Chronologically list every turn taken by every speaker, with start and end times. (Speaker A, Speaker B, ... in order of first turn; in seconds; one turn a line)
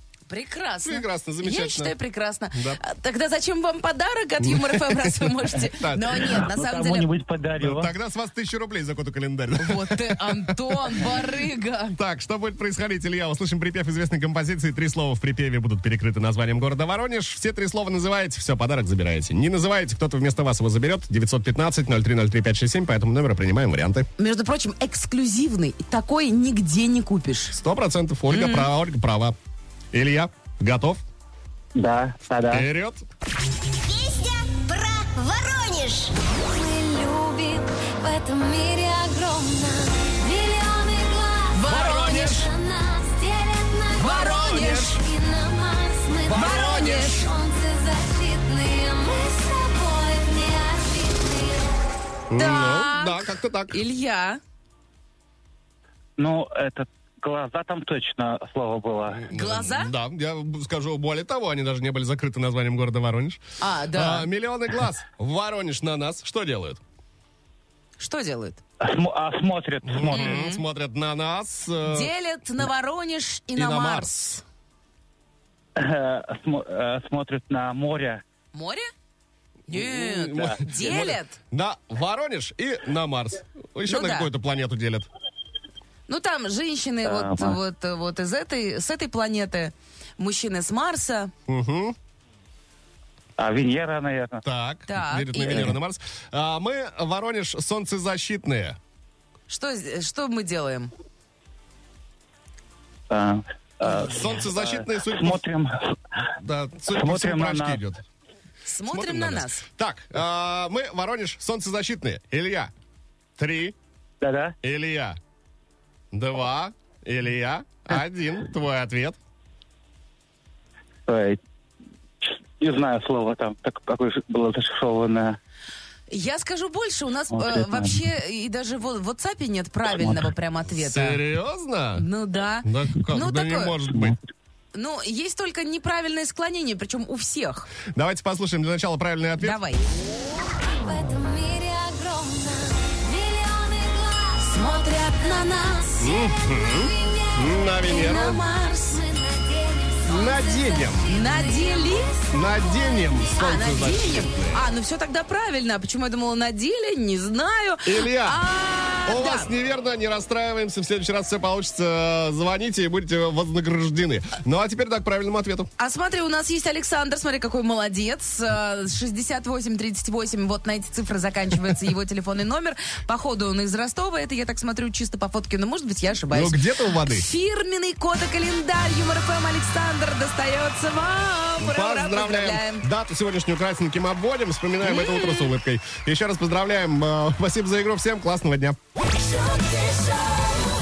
Speaker A: 0.3-7.1
Speaker B: 0.8-2.0
Speaker B: 2.5-2.8
Speaker B: 4.4-6.5
Speaker C: 6.5-7.9
Speaker B: 7.6-11.2
Speaker A: 9.6-12.0
Speaker B: 12.0-24.1
Speaker A: 24.2-27.6
Speaker B: 27.5-29.4
Speaker A: 28.3-28.7
Speaker B: 29.9-31.0
Speaker C: 31.8-32.6
Speaker B: 32.5-33.0
Speaker D: 33.8-36.1
Speaker E: 36.4-51.8
Speaker A: 41.5-42.5
Speaker B: 41.7-42.5
Speaker A: 44.0-45.0
Speaker B: 44.2-45.0
Speaker B: 46.3-47.2
Speaker A: 46.3-47.3
Speaker B: 52.3-53.8
Speaker A: 52.4-54.4
Speaker C: 56.2-59.3
Speaker B: 59.1-63.4
Speaker A: 59.3-59.9
Speaker A: 63.6-64.3
Speaker B: 63.9-66.8
Speaker A: 68.0-68.6
Speaker C: 68.8-70.4
Speaker B: 69.8-72.1
Speaker A: 70.1-70.6
Speaker A: 71.8-74.1
Speaker B: 73.5-74.4
Speaker C: 75.8-78.2
Speaker A: 78.5-78.9
Speaker A: 79.7-81.4
Speaker B: 79.7-85.1
Speaker A: 83.9-84.3
Speaker A: 86.1-91.3
Speaker C: 87.0-87.6
Speaker B: 91.5-92.0
Speaker C: 93.4-94.4
Speaker B: 94.4-98.8
Speaker A: 94.9-95.8
Speaker A: 99.5-100.9
Speaker C: 103.1-106.3
Speaker B: 103.8-105.4
Speaker B: 106.4-108.0
Speaker C: 106.9-107.8
Speaker A: 108.7-109.7
Speaker B: 108.9-112.7
Speaker B: 113.4-113.8
Speaker C: 114.2-114.5
Speaker B: 114.6-115.2
Speaker B: 116.1-119.2
Speaker C: 121.1-121.4
Speaker C: 122.2-125.4
Speaker A: 126.1-131.2
Speaker C: 127.3-128.0
Speaker B: 130.7-132.1
Speaker A: 132.0-133.8
Speaker B: 132.6-134.2
Speaker A: 134.7-137.7
Speaker B: 137.9-139.6
Speaker A: 139.4-139.9
Speaker E: 140.5-153.4
Speaker A: 144.5-146.2
Speaker B: 146.0-148.4
Speaker A: 147.8-149.0
Speaker B: 150.1-151.1
Speaker A: 151.1-152.2
Speaker B: 152.3-154.6
Speaker A: 153.3-159.5
Speaker B: 157.8-158.4
Speaker B: 159.1-165.7
Speaker A: 165.8-182.9
Speaker B: 176.3-177.2
Speaker B: 181.6-188.8
Speaker A: 184.8-185.5
Speaker E: 189.5-190.1